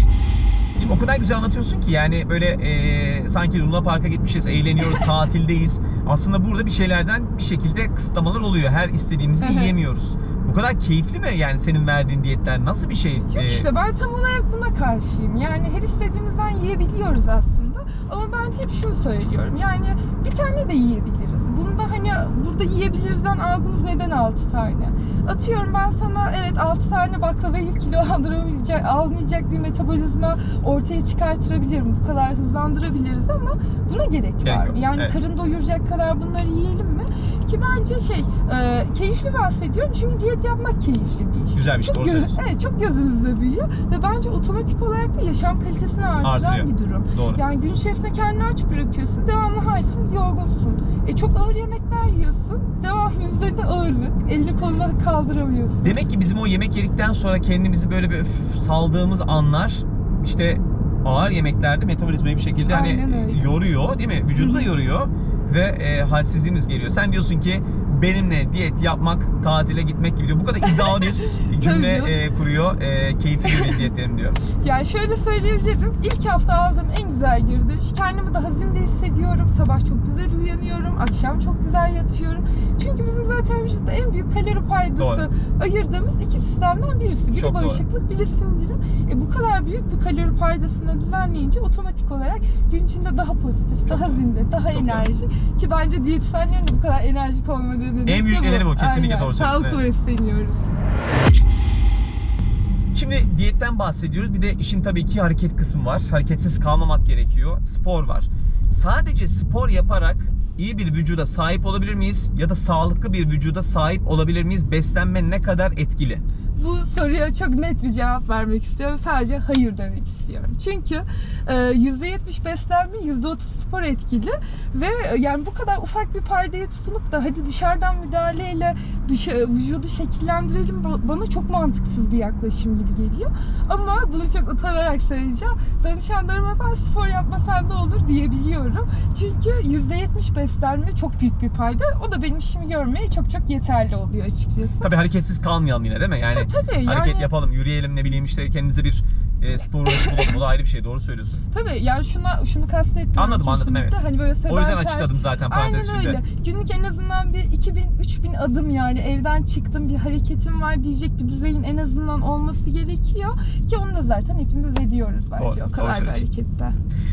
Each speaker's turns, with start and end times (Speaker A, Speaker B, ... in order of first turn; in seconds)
Speaker A: 0.8-13.7, 34.4-35.1, 41.5-42.4, 46.2-47.4, 55.8-74.4, 85.0-85.3, 87.3-87.8, 93.9-95.0, 98.0-99.8, 102.9-116.2, 144.8-151.4, 153.2-156.2, 165.4-166.2
Speaker B: 9.4-9.7, 13.3-56.0, 62.7-63.5, 64.3-64.7, 70.6-72.1, 73.5-73.8, 74.6-100.7, 116.6-144.9, 146.3-147.3, 149.9-150.3, 151.5-166.7